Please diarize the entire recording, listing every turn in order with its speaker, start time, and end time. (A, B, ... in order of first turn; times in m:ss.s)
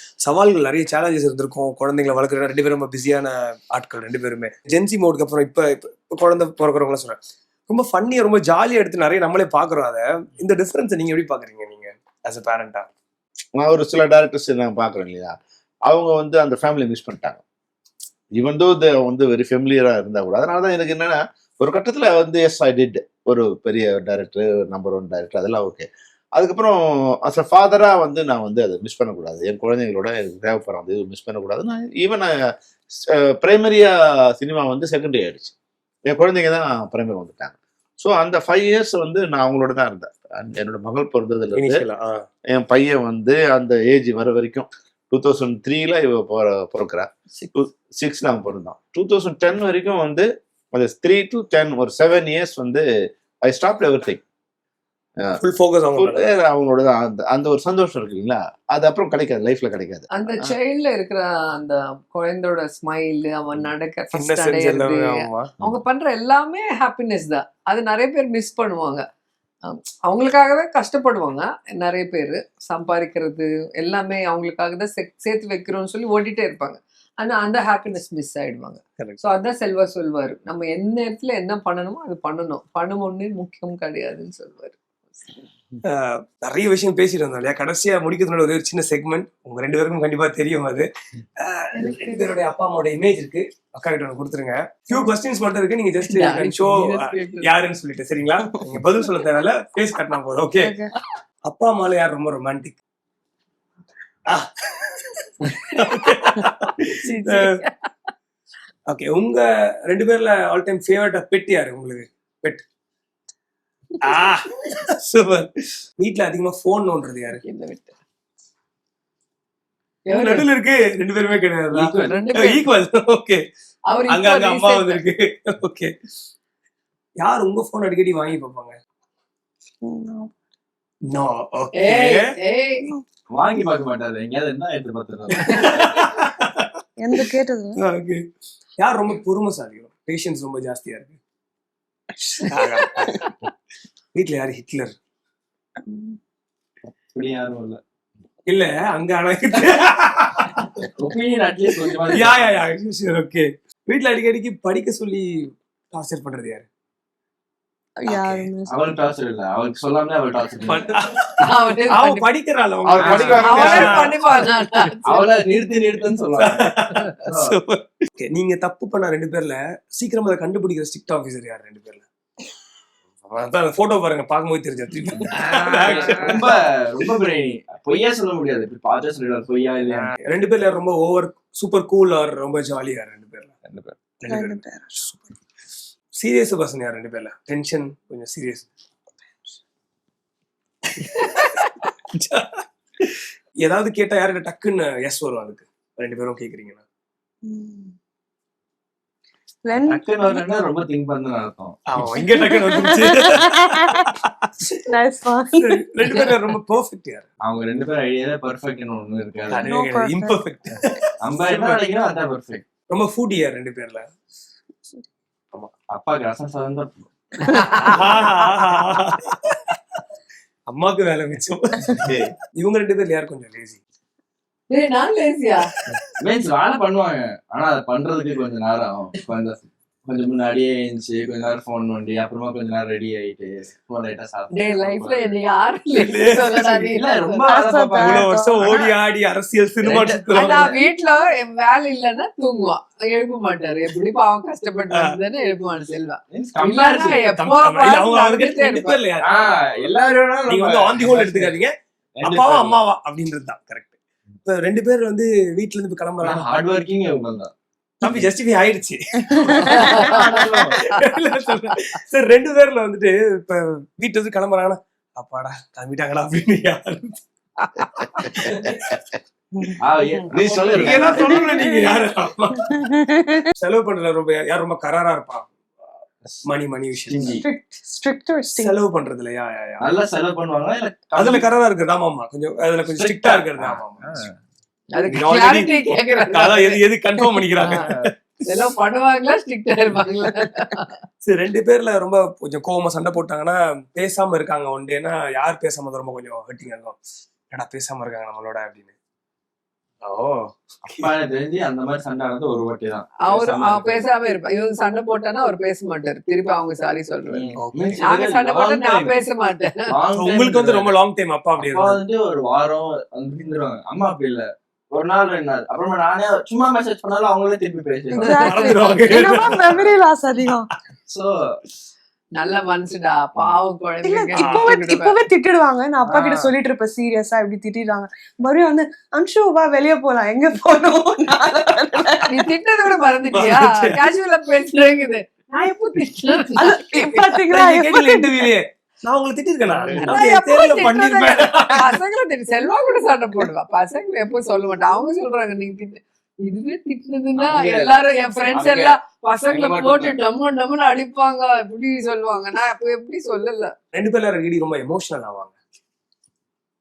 0:00.2-0:12.9 A
0:13.6-0:15.4 B
0:15.9-0:17.4 B
0:18.4-0:32.3 B
0:33.0-0:35.5 B
0:36.1-0:41.8 B
0:41.6-0:42.3 A
0:42.5-0:52.9 B
0:53.4-0:54.2 B
0:55.4-0:56.3 A
0:56.0-1:00.6 B
1:00.1-1:09.1 C
1:04.1-1:05.5 A
1:09.6-1:25.4 C
1:25.8-1:40.8 A
1:31.8-1:32.3 C
1:36.1-1:37.5 C
1:40.6-1:40.9 D
1:41.5-1:42.8 A
1:44.3-1:47.6 A
1:45.7-1:46.2 C
1:47.0-1:47.9 C
1:48.9-1:52.6 A
1:54.0-1:57.4 A
1:57.4-1:58.0 C
2:00.1-2:00.5 C
2:00.1-2:03.4 A
2:01.7-2:02.2 E
2:02.0-2:02.7 C
2:03.9-2:05.0 C
2:04.1-2:05.9 A
2:07.2-2:08.8 A
2:09.8-2:10.3 D
2:11.1-2:12.4 A
2:11.8-2:12.9 C
2:13.3-2:15.9 E
2:15.3-2:16.7 A
2:17.0-2:17.8 D
2:17.8-2:18.2 A
2:18.8-2:21.2 A
2:22.2-2:23.3 A
2:22.4-2:23.3 C
2:24.2-2:25.0 A
2:25.9-2:26.2 D
2:27.1-2:27.8 E
2:28.5-2:30.9 A
2:30.8-2:32.6 E
2:32.1-2:36.7 A
2:38.0-2:38.9 D
2:38.7-2:41.0 E
2:40.7-2:45.0 A
2:41.4-2:42.3 C
2:42.9-2:44.0 B
2:43.0-2:43.8 E
2:43.4-2:45.4 C
2:45.1-2:46.7 E
2:46.4-2:52.1 A
2:47.2-2:47.6 E
2:53.2-2:56.6 A
2:55.4-3:00.1 E
2:59.9-3:03.5 A
3:03.6-3:04.0 E
3:04.2-3:05.3 A
3:04.3-3:04.9 D
3:06.2-3:08.7 A
3:11.0-3:16.8 A
3:11.2-3:11.6 C
3:17.4-3:18.0 D
3:19.6-3:20.4 D
3:19.8-3:21.8 E
3:21.9-3:24.8 A
3:22.1-3:24.1 D
3:24.9-3:26.4 D
3:25.5-3:27.3 A
3:27.4-3:29.8 E
3:29.5-3:31.9 A
3:29.6-3:30.4 D
3:31.2-3:32.7 E
3:32.9-3:34.1 A
3:35.9-3:37.1 E
3:37.4-3:38.1 C
3:37.5-3:40.0 A
3:40.7-3:43.8 A
3:42.0-3:42.3 B
3:44.7-3:45.7 C
3:45.8-3:46.0 A
3:46.2-3:55.2 E
3:54.6-3:57.2 C
3:56.0-3:56.8 A
3:56.8-3:58.8 E
3:57.4-3:58.8 D
3:58.0-4:00.8 A
3:59.8-4:00.7 E
4:00.3-4:09.0 C
4:04.9-4:05.2 A
4:06.3-4:07.2 E
4:07.2-4:09.8 A
4:09.2-4:11.5 E
4:10.5-4:16.5 A
4:12.2-4:12.8 E
4:16.2-4:17.5 E
4:18.0-4:27.2 A
4:19.4-4:20.1 D
4:19.4-4:20.8 E
4:19.7-4:20.4 C
4:27.8-4:28.4 C
4:27.8-4:29.0 A
4:29.6-4:33.5 D
4:29.8-4:31.4 E
4:30.4-4:31.1 B
4:30.6-4:32.7 A
4:33.6-4:35.5 A
4:36.4-4:37.4 A
4:37.1-4:37.4 E
4:37.2-4:38.8 D
4:38.6-4:39.9 A
4:39.8-4:41.5 E
4:41.2-4:44.3 A
4:42.9-4:44.4 E
4:44.9-4:46.8 C
4:45.1-4:48.6 A
4:47.6-4:47.9 C
4:47.7-4:48.1 E
4:48.4-4:51.0 C
4:51.2-4:57.0 A
4:57.5-4:58.9 A
5:00.0-5:01.1 A
5:00.8-5:04.0 E
5:03.2-5:07.5 C
5:07.3-5:09.1 E
5:07.6-5:08.0 A
5:08.0-5:09.9 C
5:09.9-5:11.0 E
5:10.2-5:12.0 A
5:11.6-5:18.8 E
5:18.2-5:19.0 C
5:18.2-5:20.7 D
5:18.4-5:19.8 A
5:21.1-5:21.6 E
5:22.4-5:25.2 C
5:24.0-5:32.5 D
5:24.4-5:24.8 A
5:26.1-5:26.5 A
5:32.3-5:37.3 C
5:33.3-5:34.1 A
5:36.6-5:38.5 D
5:37.5-5:42.0 A
5:39.7-5:40.1 E
5:40.0-5:53.7 C
5:47.4-5:48.0 E
5:48.5-5:49.0 E
5:49.5-5:50.2 E
5:53.9-5:55.6 A